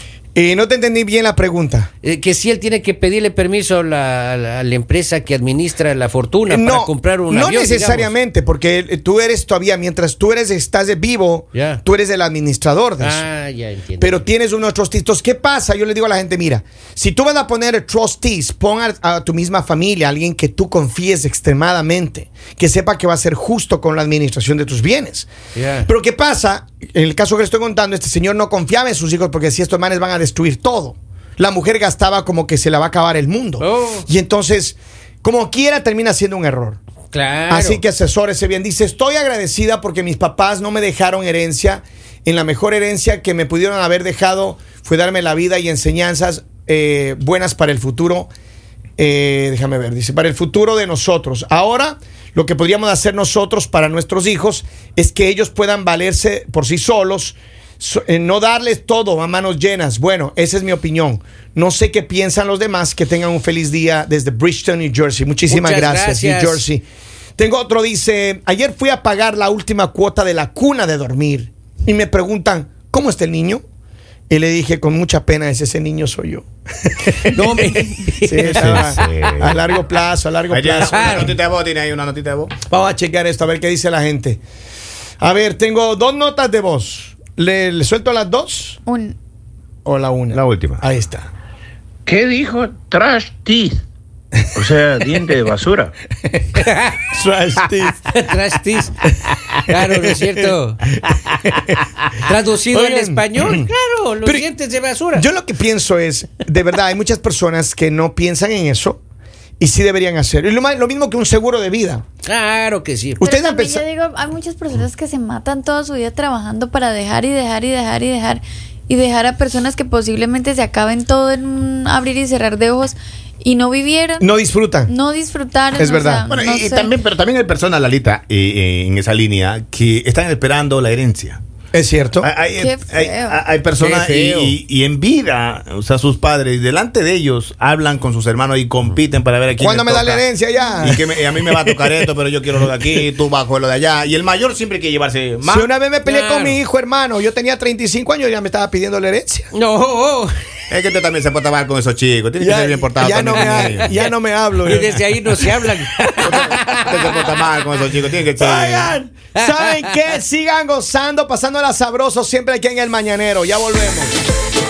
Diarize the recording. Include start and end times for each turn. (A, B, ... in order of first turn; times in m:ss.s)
0:00.4-0:01.9 A
0:02.0-0:08.1 B
0:06.4-0:13.3 A
0:11.5-0:11.8 B
0:13.0-0:14.2 B
0:14.0-0:25.3 A
0:25.6-0:25.9 B
0:25.8-0:36.8 A
0:33.6-0:34.1 B
0:37.1-0:37.8 B
0:37.5-0:48.3 A
0:49.0-1:06.8 A
1:05.5-1:06.7 B
1:07.4-1:13.6 A
1:14.3-1:21.4 A
1:17.3-1:19.0 B
1:18.5-1:19.7 C
1:20.5-1:22.5 C
1:20.9-1:21.4 B
1:22.7-1:24.4 A
1:25.2-1:28.8 A
1:28.9-1:29.2 D
1:29.8-1:31.3 A
1:30.3-1:30.8 C
1:32.1-1:33.7 E
1:34.6-1:35.9 E
1:36.6-1:37.0 B
1:37.1-1:38.2 A
1:38.1-1:38.9 B
1:39.7-1:40.8 B
1:41.1-1:41.8 A
1:42.2-1:45.3 B
1:42.7-1:43.7 A
1:45.2-1:49.0 A
1:49.6-1:52.0 A
1:52.2-1:53.2 B
1:53.2-2:04.3 D
1:53.2-1:53.8 A
2:04.2-2:04.9 A
2:04.9-2:06.9 D
2:05.8-2:06.2 A
2:06.3-2:11.4 C
2:11.7-2:12.3 A
2:12.2-2:20.2 C
2:12.6-2:13.4 D
2:13.8-2:14.6 B
2:13.9-2:14.4 A
2:19.6-2:22.0 A
2:20.8-2:25.7 C
2:25.4-2:29.5 A
2:26.0-2:26.6 B
2:29.5-2:30.3 B
2:30.7-2:34.0 C
2:32.4-2:35.4 A
2:33.4-2:34.0 B
2:34.6-2:37.3 B
2:36.2-2:39.0 C
2:38.4-2:44.2 A
2:39.4-2:39.9 B